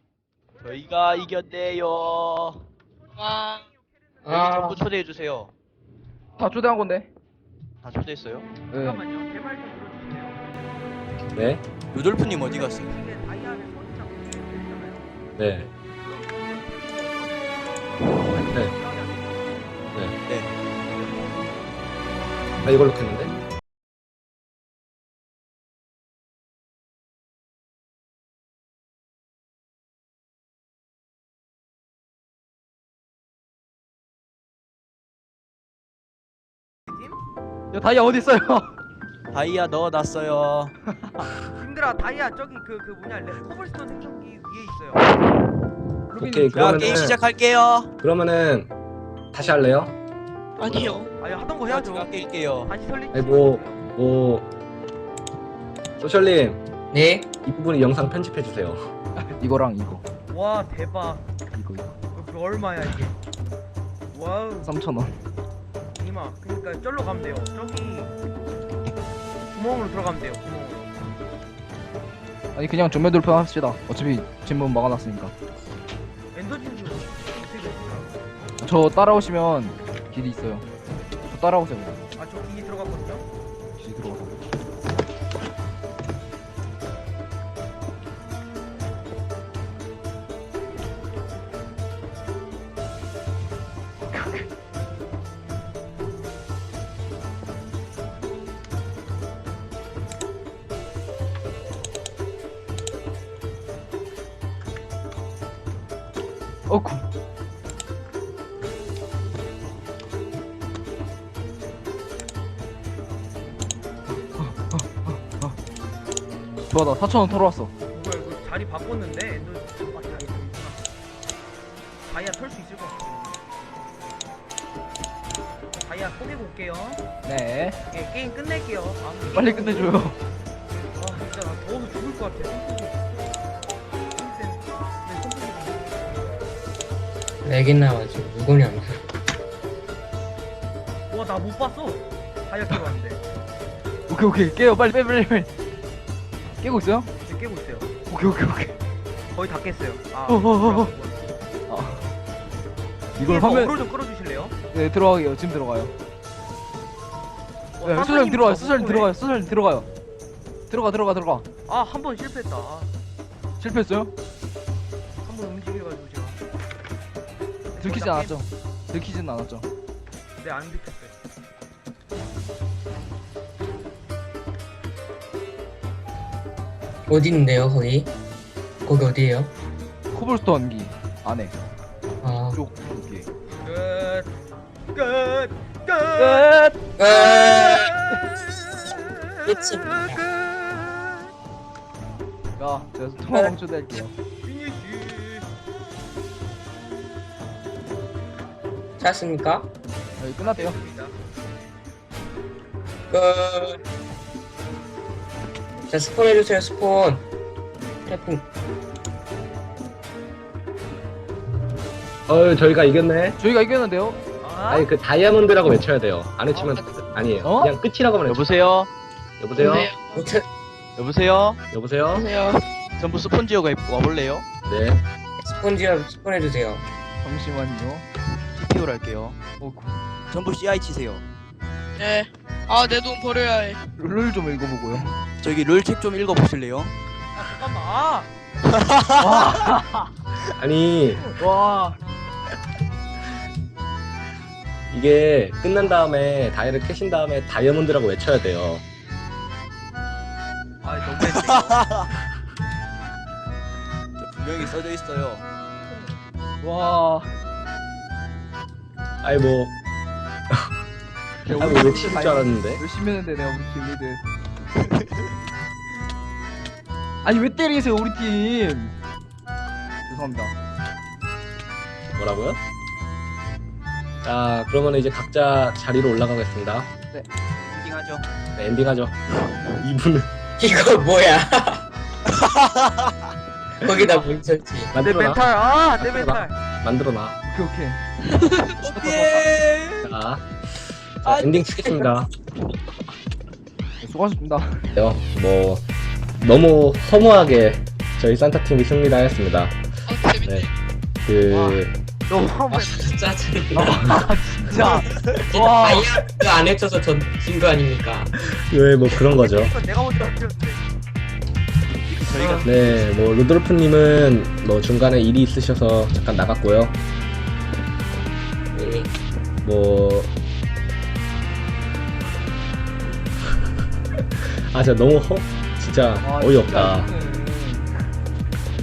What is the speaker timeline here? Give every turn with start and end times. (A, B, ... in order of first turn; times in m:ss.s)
0:00.6-0:02.7 A
0:03.2-0:03.6 B
0:04.2-0:04.8 C
0:04.3-0:05.5 A
0:06.4-0:07.1 D
0:07.8-0:08.5 A
0:08.7-0:09.0 D
0:08.8-0:10.5 E
0:11.3-0:11.6 F
0:11.9-0:12.9 A
0:12.2-0:15.1 E
0:15.4-0:15.7 F
0:16.0-0:19.6 E
0:18.4-0:18.7 F
0:20.2-0:20.5 A
0:22.6-0:23.3 F
0:36.9-0:37.2 E
0:37.7-0:38.7 D
0:39.3-0:40.7 A
0:41.0-0:41.3 D
0:41.5-0:45.1 E
0:46.1-0:47.0 E
0:46.2-0:47.2 F
0:46.5-0:47.9 A
0:48.0-0:48.7 F
0:49.3-0:49.9 F
0:50.6-0:51.1 B
0:50.7-0:51.0 A
0:51.0-0:53.8 E
0:51.6-0:52.7 A
0:53.1-0:54.5 F
0:56.0-0:56.6 F
0:56.9-0:57.3 C
0:57.4-0:58.8 F
0:59.2-1:00.0 D
1:00.3-1:01.2 E
1:01.5-1:02.0 D
1:02.1-1:03.2 E
1:04.1-1:04.7 E
1:04.6-1:05.2 D
1:06.0-1:08.1 E
1:09.5-1:10.9 E
1:12.5-1:15.3 D
1:16.3-1:18.1 E
1:18.6-1:20.6 D
1:21.2-1:22.1 D
1:22.2-1:23.2 E
1:23.8-1:24.4 D
1:34.0-1:34.5 D
1:46.7-1:47.0 D
1:54.4-1:55.5 D
1:56.7-1:57.7 D
1:57.9-2:00.8 E
2:02.0-2:03.4 E
2:05.7-2:07.0 E
2:07.2-2:07.8 D
2:07.9-2:10.0 E
2:09.3-2:10.2 D
2:11.0-2:13.1 E
2:14.1-2:16.4 E
2:17.4-2:19.0 C
2:21.1-2:23.2 E
2:24.1-2:25.5 D
2:26.6-2:27.1 D
2:27.2-2:27.9 E
2:28.1-2:28.8 D
2:29.3-2:31.2 E
2:30.3-2:30.9 D
2:31.7-2:32.0 D
2:33.2-2:34.6 E
2:33.2-2:33.8 D
2:34.7-2:35.9 D
2:37.8-2:39.1 E
2:37.8-2:39.9 D
2:40.7-2:41.4 D
2:41.7-2:42.9 E
2:43.6-2:44.1 D
2:45.2-2:46.4 E
2:47.7-2:48.4 E
2:47.8-2:49.7 D
2:50.4-2:51.1 E
2:57.1-2:58.1 C
2:58.8-2:59.5 C
3:00.1-3:01.6 D
3:02.2-3:02.6 C
3:02.5-3:03.3 D
3:03.6-3:04.3 E
3:04.9-3:06.5 E
3:06.2-3:06.8 D
3:07.0-3:08.0 C
3:09.0-3:10.2 E
3:09.4-3:10.2 C
3:12.6-3:14.1 D
3:14.4-3:15.5 E
3:19.0-3:19.7 C
3:20.2-3:20.8 D
3:20.4-3:21.2 E
3:23.1-3:23.8 C
3:25.9-3:27.2 C
3:28.0-3:28.4 C
3:32.3-3:33.4 F
3:33.4-3:34.2 D
3:34.4-3:34.9 E
3:34.7-3:38.5 F
3:36.5-3:36.8 E
3:37.4-3:37.7 D
3:38.2-3:38.9 A
3:39.4-3:39.9 F
3:39.6-3:40.2 B
3:40.1-3:40.4 C
3:41.0-3:41.6 A
3:41.7-3:42.2 F
3:42.1-3:42.6 B
3:43.0-3:44.4 A
3:44.6-3:45.0 F
3:45.4-3:46.8 C
3:47.2-3:48.0 D
3:48.5-3:49.4 A
3:49.6-3:50.0 D
3:50.3-3:51.2 A
3:52.0-3:53.8 B
3:54.0-3:55.2 D
3:55.4-3:56.9 A
3:57.3-3:58.3 E
3:58.7-3:59.6 A
3:59.1-4:00.1 D
4:00.6-4:01.2 F
4:01.2-4:02.0 D
4:04.9-4:08.8 F
4:10.8-4:11.8 E
4:11.2-4:12.1 A
4:14.2-4:15.4 A
4:16.6-4:17.3 D
4:19.2-4:19.7 F
4:21.4-4:24.2 D
4:21.4-4:22.8 F
4:27.2-4:28.9 D
4:30.0-4:30.5 D
4:32.1-4:32.6 F
4:34.2-4:36.9 F
4:37.6-4:38.2 A
4:38.6-4:39.2 F
4:39.8-4:40.3 F
4:40.6-4:41.8 C
4:42.4-4:43.1 A
4:43.8-4:44.9 C
4:44.9-4:45.4 F
4:45.0-4:46.6 E
4:46.0-4:47.4 F
4:47.4-4:48.0 D
4:48.4-4:48.7 B
4:48.8-4:50.2 A
4:48.9-4:49.5 D
4:50.0-4:50.4 F
4:51.2-4:52.3 F
4:51.2-4:52.1 A
4:54.0-4:54.9 D
4:55.0-4:55.8 F
4:56.4-4:59.8 F
5:00.1-5:00.7 B
5:00.3-5:00.7 F
5:01.2-5:01.9 F
5:01.5-5:03.0 E
5:02.7-5:04.2 C
5:03.7-5:06.1 D
5:04.9-5:05.2 A
5:05.5-5:08.3 C
5:08.4-5:09.7 F
5:09.2-5:10.8 E
5:12.1-5:13.1 A
5:12.6-5:17.0 F
5:18.7-5:19.1 C
5:19.6-5:20.3 F
5:24.7-5:27.1 F
5:26.2-5:27.9 D